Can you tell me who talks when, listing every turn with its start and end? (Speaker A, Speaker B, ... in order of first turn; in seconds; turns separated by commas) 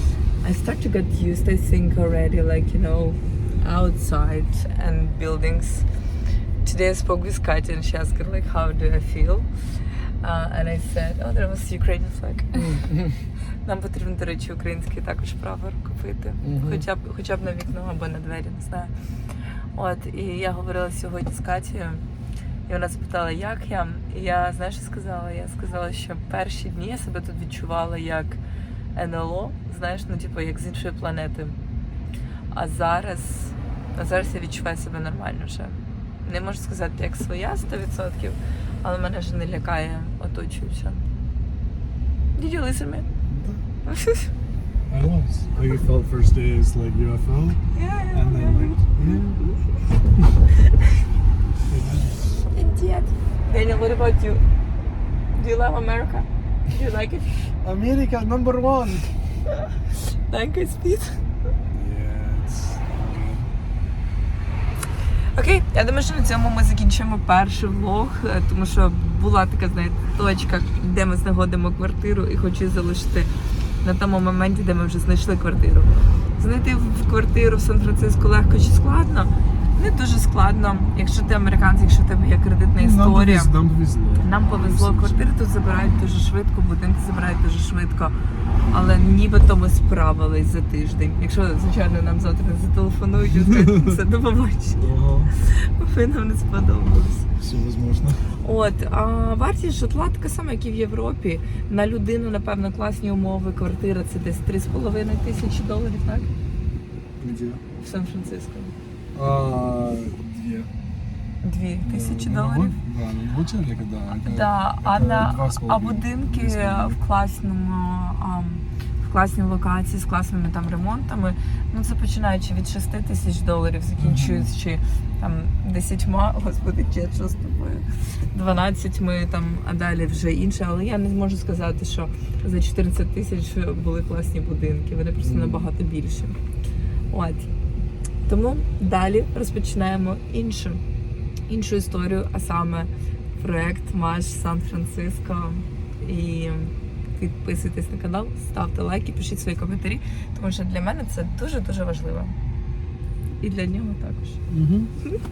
Speaker A: 0.4-5.9, Speaker A: 6.6-9.5, Speaker A: 10.2-12.9, Speaker B: 12.6-13.2, Speaker A: 13.7-18.9, Speaker B: 16.4-16.8, Speaker A: 19.8-22.1, Speaker A: 22.7-28.4, Speaker A: 28.9-31.6, Speaker A: 32.5-41.0, Speaker A: 42.4-43.1, Speaker B: 43.3-43.6, Speaker A: 43.9-44.3, Speaker B: 44.9-47.6, Speaker A: 47.7-49.6, Speaker B: 48.1-49.5, Speaker B: 51.6-52.2, Speaker A: 52.5-54.4, Speaker A: 55.4-57.5, Speaker B: 57.6-59.1, Speaker A: 60.3-61.2, Speaker B: 61.7-63.5, Speaker A: 65.3-73.3, Speaker A: 73.8-83.6, Speaker B: 82.8-85.4, Speaker A: 84.2-88.2, Speaker A: 88.7-97.3, Speaker B: 93.5-94.0, Speaker B: 94.8-95.3, Speaker B: 97.4-98.3, Speaker A: 98.4-106.3, Speaker B: 107.2-107.6, Speaker A: 107.8-108.8, Speaker B: 109.2-110.7, Speaker A: 111.4-112.8, Speaker B: 111.8-117.0, Speaker A: 114.1-136.4, Speaker B: 124.0-124.5, Speaker B: 135.2-135.7, Speaker A: 137.1-137.5, Speaker A: 138.3-140.8, Speaker A: 141.5-152.3, Speaker A: 153.4-154.4, Speaker B: 154.5-154.9